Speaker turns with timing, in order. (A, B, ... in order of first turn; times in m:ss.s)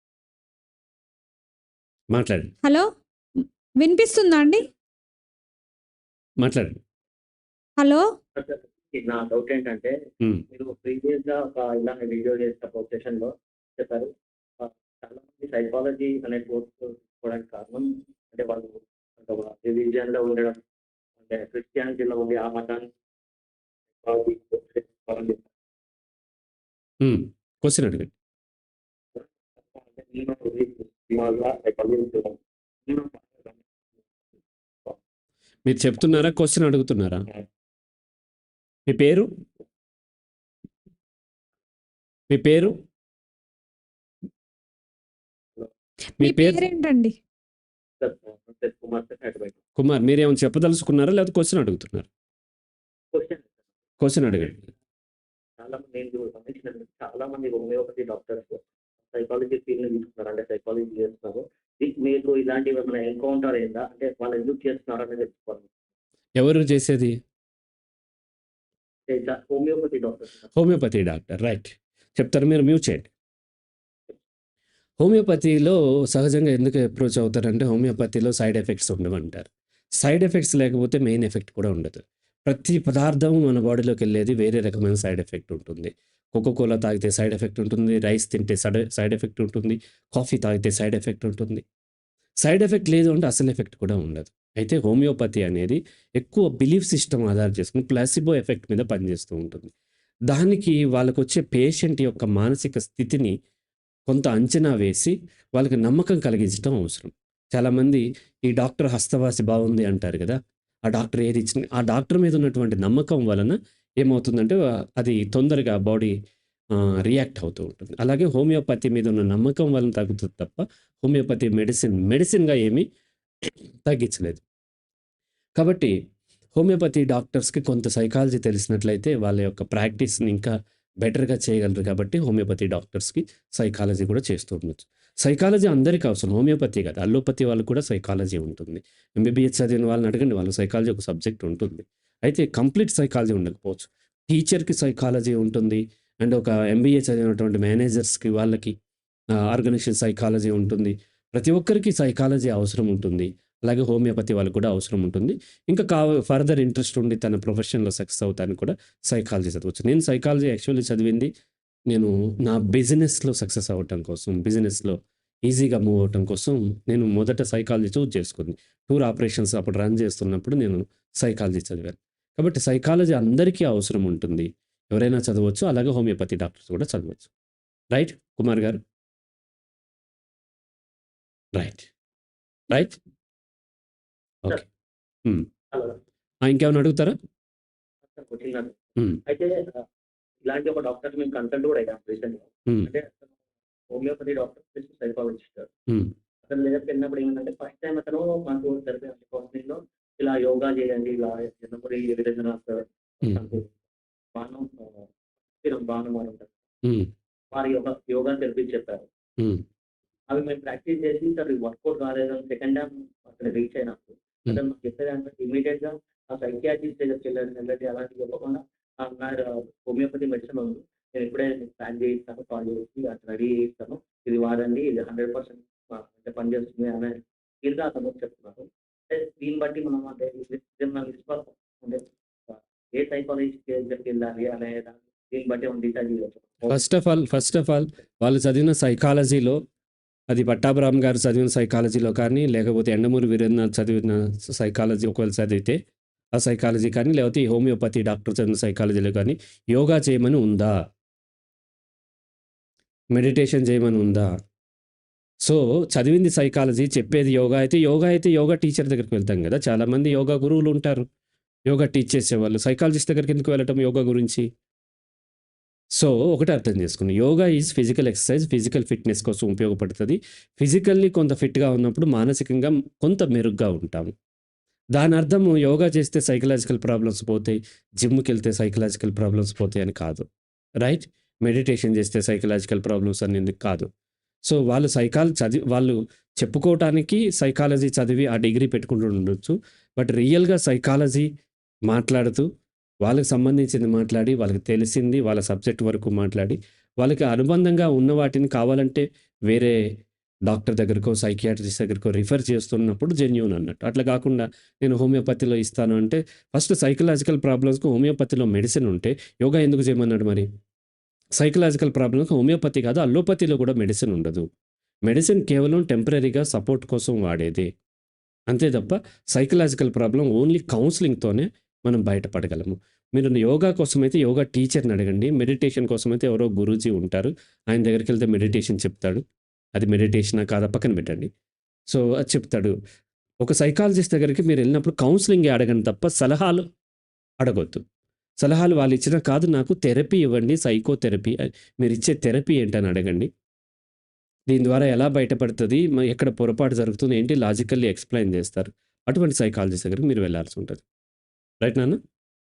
0:02.1-0:02.5 A
0:02.6-0:04.6 B
0:06.4-0:06.8 A
0:07.8-0:08.0 B
0:08.4-0:09.9 C
0:10.5-0:20.6 C
0:21.2-0:22.9 C
0:24.0-0:25.5 C
0:27.0-0:28.1 A
0:29.2-0:33.7 C
0:35.6-0:37.2 A
0:38.9-0:39.3 A
0:42.3-0:42.8 A
0:46.2-0:46.7 A
0:46.2-0:47.2 B
0:48.0-0:49.6 C
0:49.8-0:52.1 A
0:53.1-0:53.5 C
0:54.0-0:54.6 A
0:55.6-1:05.7 C
1:06.4-1:07.2 A
1:09.1-1:10.5 C
1:10.6-1:13.1 A
1:15.0-1:31.6 A
1:32.4-1:39.7 A
1:40.3-1:43.3 A
1:44.1-1:56.1 A
1:56.8-2:02.9 A
2:03.4-2:04.4 A
2:05.6-2:05.9 A
2:06.6-2:28.7 A
2:29.4-2:41.3 A
2:41.9-2:57.3 A
2:57.9-2:58.8 A
3:01.6-3:01.9 A
3:02.7-3:03.0 A
3:05.7-3:06.0 C
3:06.4-3:07.2 A
3:08.1-3:09.8 C
3:10.4-3:13.3 C
3:13.9-3:15.7 C
3:16.4-3:23.8 C
3:24.4-3:26.6 C
3:27.5-3:29.1 C
3:30.3-3:56.9 C
3:56.7-3:59.6 A
4:00.3-4:05.8 A
4:06.4-4:10.8 A
4:13.1-4:14.3 A
4:15.4-4:21.0 A
4:21.7-4:24.5 A
4:26.0-4:34.1 A
4:35.0-4:40.2 A
4:40.8-4:43.9 A
4:44.5-4:51.3 A
4:51.9-4:52.5 A
4:53.0-4:59.8 A
5:00.5-5:10.5 A
5:11.4-5:14.5 A
5:15.1-5:17.7 A
5:18.5-5:29.2 A
5:29.8-5:31.3 A
5:31.9-5:32.8 A
5:33.4-5:36.6 A
5:37.4-5:37.8 A
5:38.4-5:43.3 A
5:44.5-5:50.8 A
5:51.6-5:52.0 A